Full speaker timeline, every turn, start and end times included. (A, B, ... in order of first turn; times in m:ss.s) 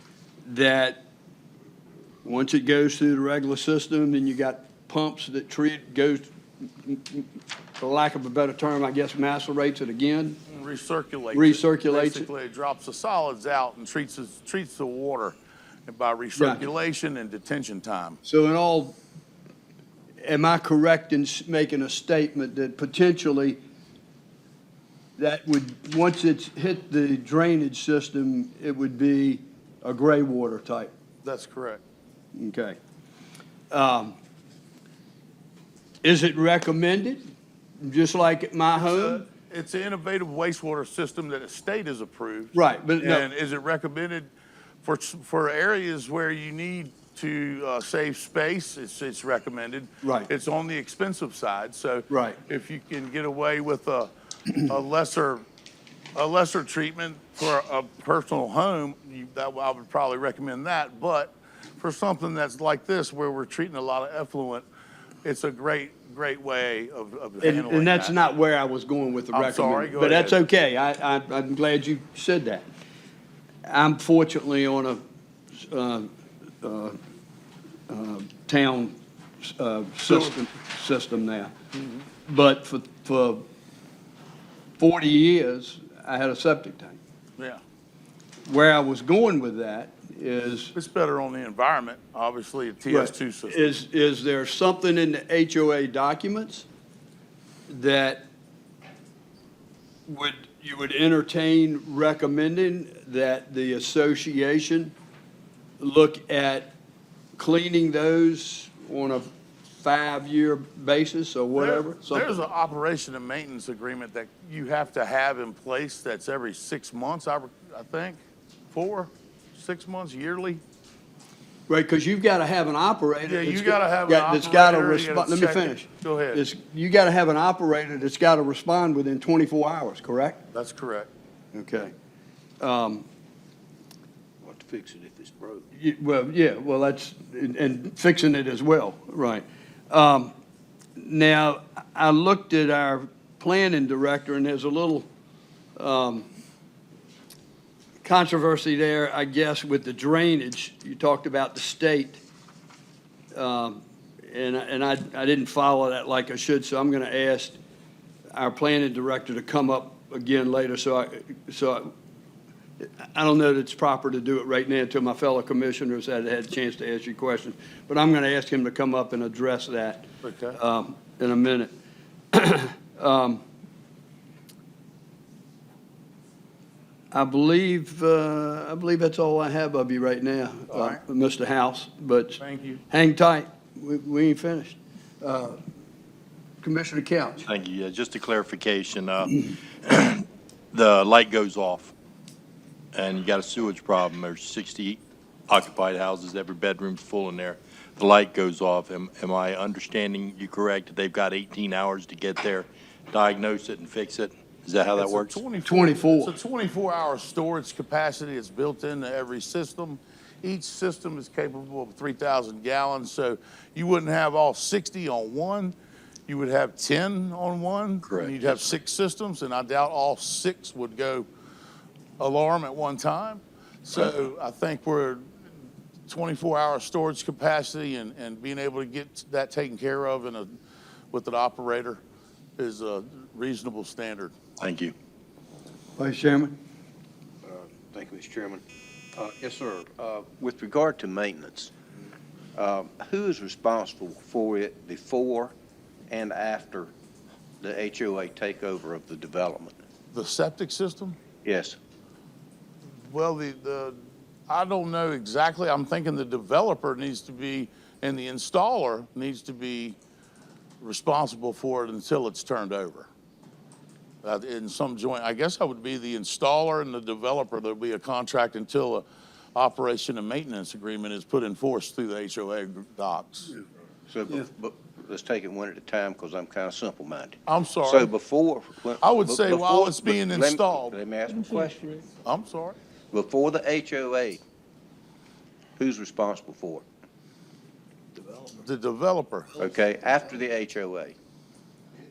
0:00.4-0:01.0 A
0:02.2-0:10.4 A
0:10.5-0:15.4 B
0:11.3-0:12.3 A
0:15.9-0:18.2 B
0:16.4-0:16.6 A
0:18.2-0:19.0 A
0:20.2-0:23.6 A
0:25.2-0:30.9 A
0:31.2-0:31.8 B
0:32.3-0:32.8 A
0:33.7-0:34.2 A
0:36.0-0:39.3 A
0:38.8-0:44.3 B
0:42.5-0:43.2 A
0:44.8-0:55.4 B
0:50.0-0:50.3 A
0:52.1-0:52.4 A
0:56.1-1:04.6 B
1:05.2-1:08.2 B
1:07.4-1:12.7 A
1:09.3-1:10.4 B
1:13.6-1:15.0 A
1:15.5-1:16.1 A
1:16.6-1:17.0 A
1:17.9-1:21.5 A
1:20.1-1:20.3 B
1:22.2-1:23.4 A
1:24.8-1:27.0 A
1:28.4-1:30.7 A
1:30.7-1:33.7 B
1:32.9-1:36.6 A
1:37.7-1:38.2 A
1:40.1-1:44.9 A
1:45.8-1:46.7 A
1:47.4-1:52.4 A
1:51.5-1:58.2 B
1:58.7-2:00.6 B
2:01.7-2:10.4 A
2:03.2-2:06.4 B
2:10.5-2:11.1 B
2:11.5-2:11.9 A
2:12.6-2:13.0 A
2:14.4-2:15.6 C
2:15.8-2:20.3 A
2:21.0-2:25.1 A
2:25.8-2:26.3 A
2:28.0-2:32.2 A
2:33.3-2:37.6 A
2:38.3-2:41.9 A
2:42.8-2:51.7 A
2:50.2-2:50.6 B
2:52.3-2:53.4 A
2:57.1-3:05.6 A
3:00.7-3:01.0 B
3:02.4-3:02.8 B
3:06.6-3:07.5 A
3:07.4-3:11.9 D
3:12.9-3:25.4 D
3:25.0-3:35.7 B
3:25.6-3:26.3 A
3:36.3-3:41.3 B
3:38.0-3:38.5 D
3:42.2-3:45.3 B
3:46.1-3:50.5 B
3:51.1-3:52.0 B
3:52.6-3:54.3 B
3:54.6-3:54.9 D
3:56.0-3:56.6 A
3:57.4-3:58.6 C
3:59.2-4:01.7 C
4:02.5-4:05.5 C
4:06.1-4:06.9 C
4:07.6-4:09.8 C
4:10.1-4:11.2 B
4:11.4-4:11.8 C
4:13.0-4:20.0 B
4:20.8-4:23.1 B
4:24.2-4:33.5 B
4:34.1-4:42.0 C
4:37.5-4:38.1 B
4:39.0-4:41.0 B
4:42.2-4:42.8 B
4:43.1-4:44.4 C
4:45.8-4:46.8 C
4:48.6-4:49.6 B
4:49.6-4:51.1 C